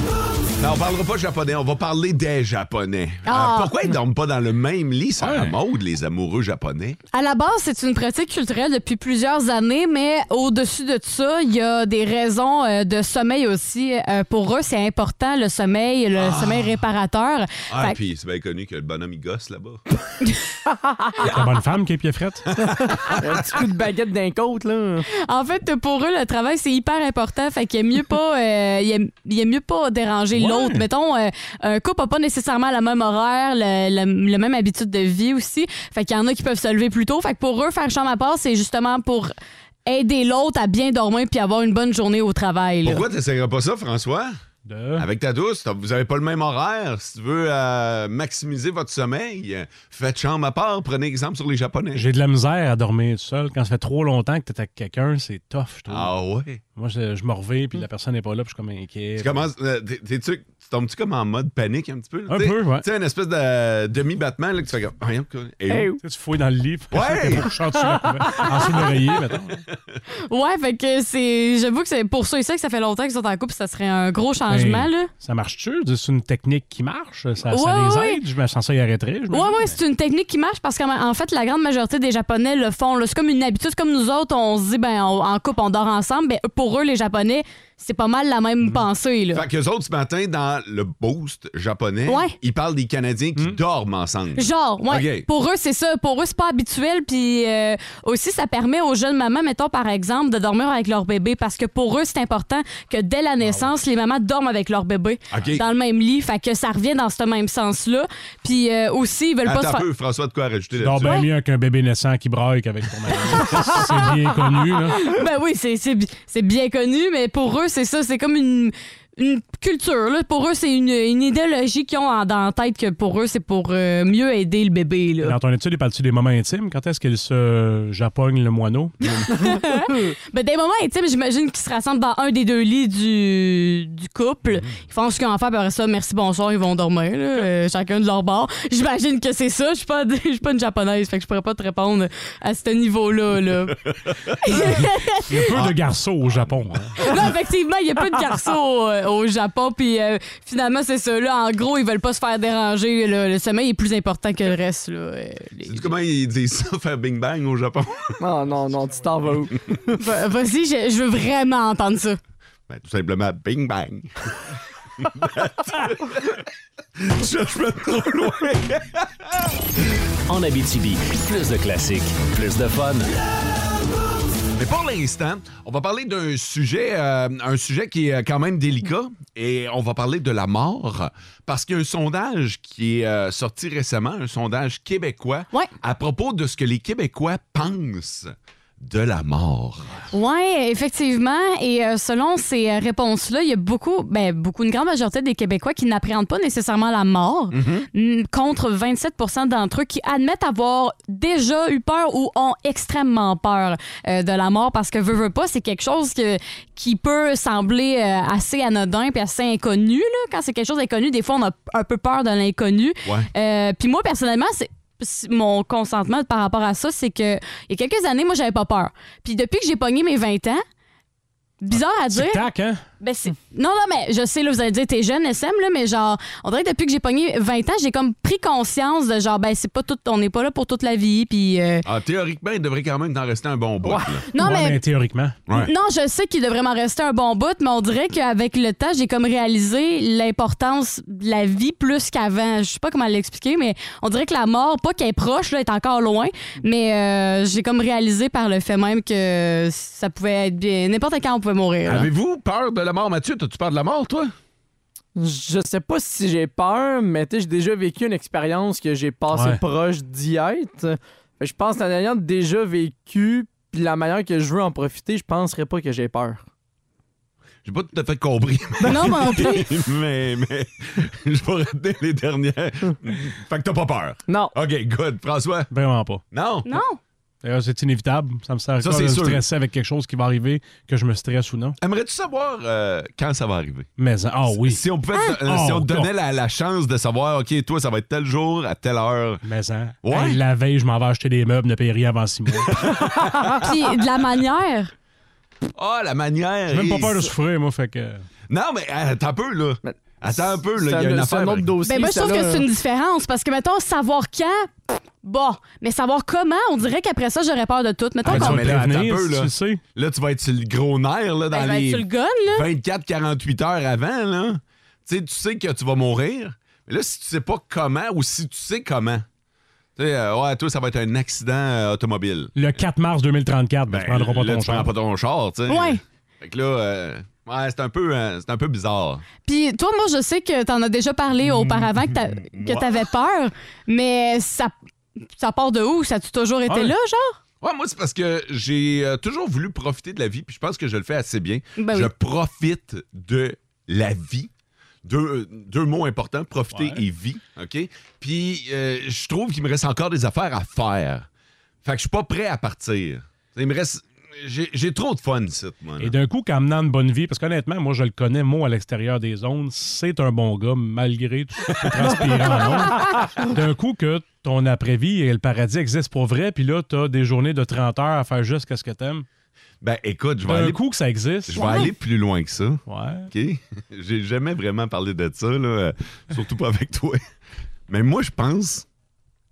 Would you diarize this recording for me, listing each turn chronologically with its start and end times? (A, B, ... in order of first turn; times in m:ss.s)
0:00.6-0:07.0 A
0:03.3-0:03.7 B
0:05.2-0:05.5 C
0:07.1-0:18.0 B
0:16.2-0:16.8 A
0:17.7-0:19.8 A
0:21.2-0:22.5 C
0:22.6-0:22.9 A
0:23.1-0:25.0 D
0:25.2-0:39.3 B
0:30.4-0:30.8 C
0:39.9-0:43.0 B
0:42.8-0:44.4 A
0:44.7-0:45.0 C
0:45.0-0:52.1 A
0:51.9-0:56.1 C
0:55.9-0:56.6 A
0:56.8-0:59.4 C
0:59.2-1:06.0 A
1:02.3-1:02.8 C
1:05.7-1:06.0 D
1:06.0-1:09.6 C
1:06.9-1:07.5 A
1:10.3-1:15.1 B
1:14.5-1:19.8 C
1:17.5-1:18.2 B
1:19.3-1:29.4 B
1:29.3-1:35.3 A
1:32.1-1:32.3 B
1:34.4-1:49.8 B
1:43.4-1:43.7 C
1:45.3-1:45.6 A
1:49.4-1:51.2 A
1:50.8-1:55.1 C
1:55.0-2:05.4 B
2:05.2-2:09.0 C
2:09.2-2:23.8 B
2:24.4-2:25.5 B
2:25.3-2:27.0 C
2:27.0-2:35.9 B
2:35.7-2:38.2 A
2:38.2-2:39.9 D
2:40.0-2:42.2 B
2:42.7-2:44.4 A
2:45.0-2:49.5 A
2:50.3-2:53.1 E
2:54.5-3:10.1 A
3:10.1-3:40.6 B
3:17.5-3:17.9 A
3:41.6-3:42.5 B
3:42.1-3:42.8 C
3:43.0-3:51.8 B
3:51.8-3:54.2 A
3:53.8-3:54.2 D
3:54.3-3:54.8 B
3:54.4-3:55.4 C
3:55.5-4:12.1 B
4:11.9-4:14.3 A
4:15.2-4:26.4 D
4:19.3-4:19.6 C
4:27.6-4:35.7 A
4:28.8-4:29.6 B
4:34.3-4:34.6 D
4:35.7-4:36.2 C
4:36.3-4:36.8 A
4:36.7-4:37.0 B
4:37.4-4:41.8 C
4:38.8-4:39.4 A
4:41.8-4:43.9 A
4:44.0-4:44.8 C
4:44.4-4:49.4 A
4:45.4-4:46.1 C
4:49.4-4:53.0 C
4:50.0-4:50.4 A
4:52.8-4:53.5 A
4:53.6-4:54.9 B
4:55.8-4:57.3 A
4:56.7-4:58.2 C
4:58.5-5:01.7 A
4:59.8-5:02.7 D
5:01.8-5:08.8 B
5:08.2-5:09.8 C
5:08.2-5:19.3 A
5:11.5-5:12.7 B
5:20.0-5:22.5 A
5:22.6-5:24.9 C
5:23.9-5:29.2 A
5:25.7-5:26.0 B
5:29.4-5:34.7 B
5:31.5-5:32.9 A
5:35.4-5:37.4 B
5:36.7-5:36.9 C
5:37.6-5:44.5 A
5:41.8-5:42.1 B
5:45.0-5:51.3 A
5:46.7-5:47.0 C
5:51.8-5:56.1 A
5:56.0-6:09.3 C
6:09.8-6:10.8 A
6:10.5-6:11.8 C
6:11.5-6:17.2 A
6:11.6-6:11.9 B
6:12.9-6:13.3 C
6:17.9-6:18.9 A